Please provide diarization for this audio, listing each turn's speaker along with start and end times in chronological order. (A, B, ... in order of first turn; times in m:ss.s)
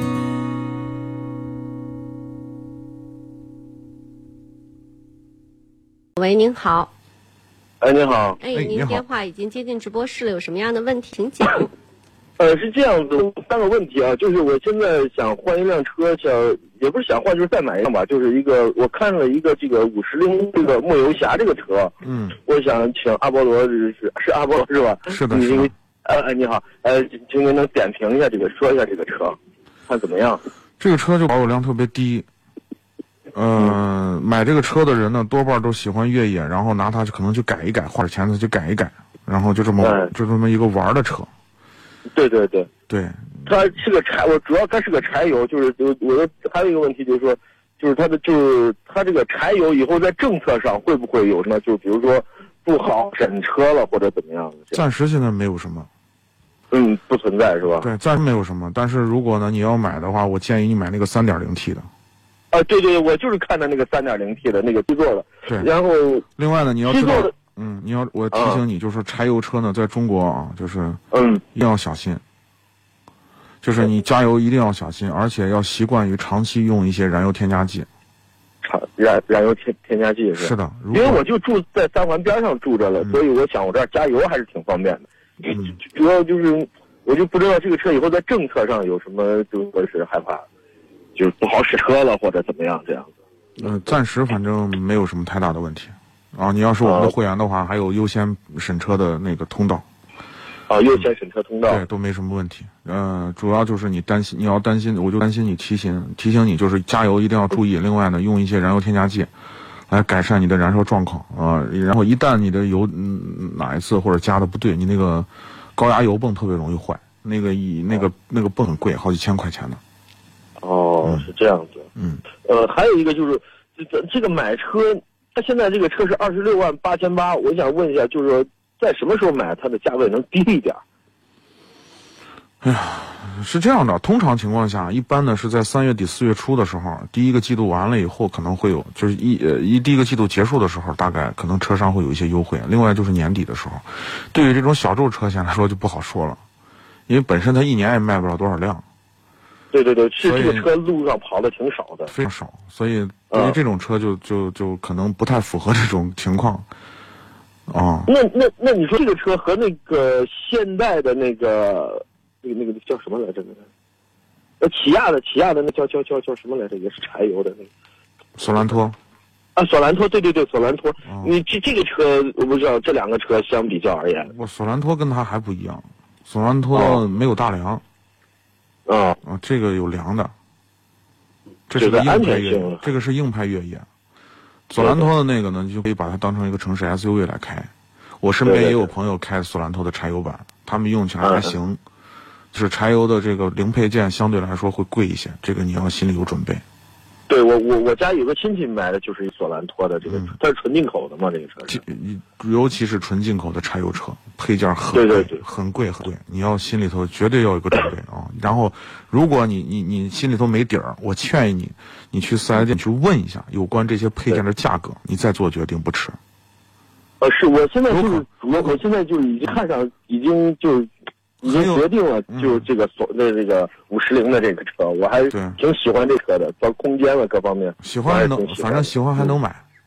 0:06.2-0:06.9 A
0:07.8-0:08.4 B
0:08.4-0:11.7 A
0:08.5-0:09.0 C
0:12.4-0:29.4 B
0:22.0-0:22.4 C
0:25.1-0:25.7 C
0:29.9-0:30.4 B
0:30.8-0:32.3 C
0:33.3-0:41.3 C
0:39.8-0:40.1 B
0:42.1-0:42.7 B
0:42.9-0:43.3 C
0:43.4-0:54.8 B
0:54.7-0:55.9 C
0:56.7-0:57.9 B
0:57.8-1:01.9 C
1:02.5-1:06.2 B
1:05.4-1:05.7 C
1:06.4-1:11.0 C
1:06.8-1:07.3 B
1:08.3-1:08.6 B
1:11.1-1:11.4 B
1:11.5-1:12.2 C
1:13.6-1:17.9 C
1:18.6-1:30.4 B
1:20.4-1:21.2 C
1:31.2-1:33.1 B
1:33.6-1:39.8 C
1:36.8-1:37.1 B
1:40.7-1:41.8 B
1:41.7-1:49.3 C
1:49.9-1:59.8 C
2:00.6-2:01.9 B
2:01.0-2:01.3 C
2:02.0-2:02.2 C
2:02.4-2:10.8 B
2:12.6-2:26.4 C
2:27.1-2:28.8 C
2:29.7-2:32.1 B
2:30.2-2:30.7 C
2:32.1-2:36.7 C
2:33.3-2:33.6 B
2:37.7-2:38.1 C
2:38.1-2:43.7 B
2:44.6-2:47.7 B
2:48.4-2:49.0 C
2:49.6-2:54.3 B
2:51.0-2:51.3 C
2:54.2-2:57.8 C
2:56.7-2:57.0 B
2:58.8-2:59.2 B
2:59.2-3:00.3 C
3:01.7-3:03.9 C
3:01.8-3:02.8 B
3:04.7-3:11.8 C
3:04.8-3:05.1 B
3:08.4-3:08.9 B
3:11.2-3:11.5 B
3:12.5-3:16.6 C
3:17.3-3:21.8 B
3:20.0-3:20.4 C
3:21.7-3:36.2 C
3:24.9-3:25.4 B
3:37.2-3:40.9 B
3:37.9-3:38.2 C
3:41.4-3:42.6 C
3:41.4-3:49.3 B
3:45.3-3:45.6 C
3:47.8-3:49.6 C